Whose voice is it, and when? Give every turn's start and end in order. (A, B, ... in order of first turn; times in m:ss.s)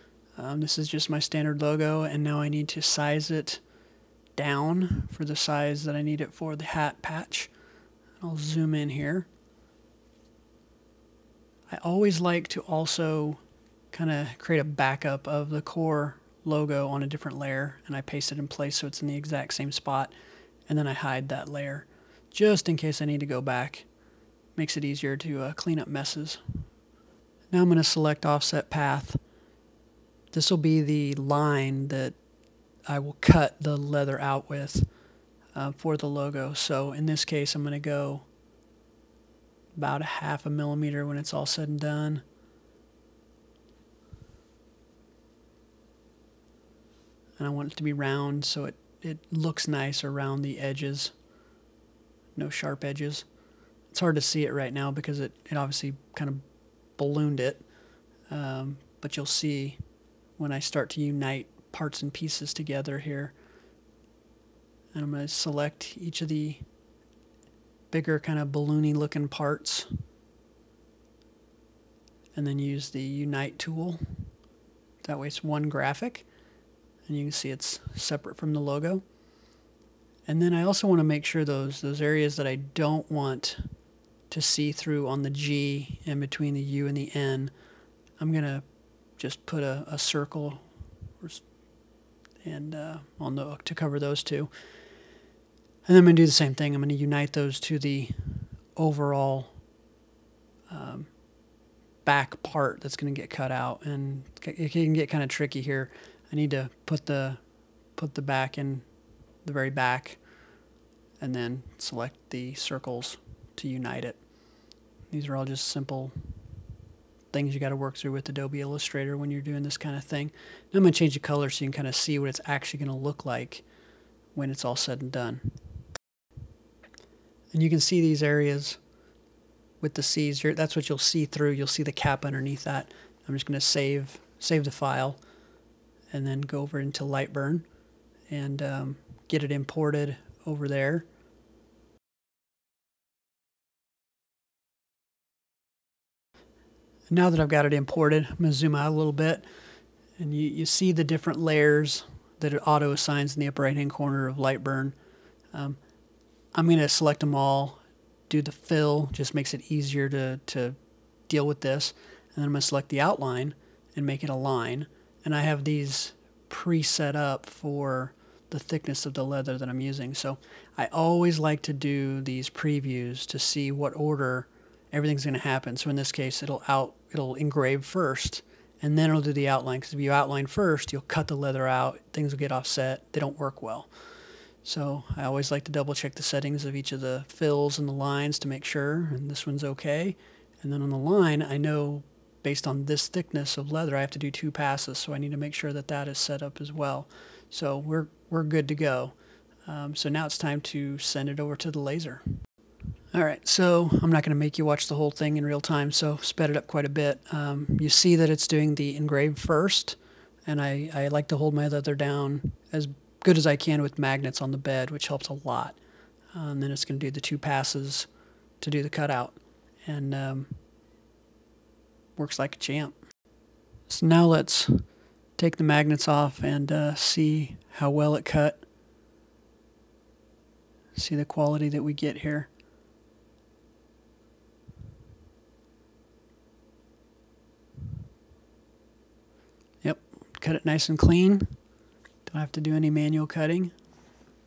0:00.4-0:03.6 A
0:04.4-0:07.5 A
0:08.2-0:09.3 A
0:11.7-0:13.4 A
0:13.9-0:20.1 A
0:20.7-0:23.9 A
0:24.5-0:26.4 A
0:27.5-0:29.2 A
0:30.3-0:32.2 A
0:32.9-0:34.9 A
0:35.5-0:38.3 A
0:39.7-0:42.2 A
0:47.4-0:51.1 A
0:52.4-0:53.2 A
0:53.9-0:56.4 A
0:57.0-0:57.6 A
0:58.3-0:59.8 A
1:00.4-1:03.3 A
1:04.9-1:06.6 A
1:07.9-1:09.9 A
1:12.3-1:14.3 A
1:15.0-1:16.3 A
1:17.0-1:19.0 A
1:20.2-1:23.7 A
1:24.3-1:27.5 A
1:28.2-1:28.6 A
1:29.2-1:31.4 A
1:32.4-1:34.5 A
1:35.8-1:39.6 A
1:40.7-1:41.1 A
1:42.0-1:47.4 A
1:47.9-1:48.8 A
1:49.4-1:50.2 A
1:51.2-1:54.2 A
1:55.1-1:56.1 A
1:57.3-2:03.6 A
2:04.3-2:05.6 A
2:07.5-2:08.8 A
2:09.8-2:15.2 A
2:16.1-2:17.6 A
2:18.3-2:21.1 A
2:27.1-2:29.4 A
2:30.2-2:35.0 A
2:35.5-2:35.8 A
2:36.5-2:40.8 A
2:41.3-3:03.9 A
3:04.6-3:19.1 A
3:19.6-3:22.2 A
3:23.1-3:35.8 A
3:36.3-3:38.1 A
3:38.6-3:40.6 A
3:42.2-3:43.0 A
3:43.9-3:44.8 A
3:45.4-3:48.6 A
3:50.9-3:52.5 A
3:59.8-4:01.6 A
4:02.3-4:03.7 A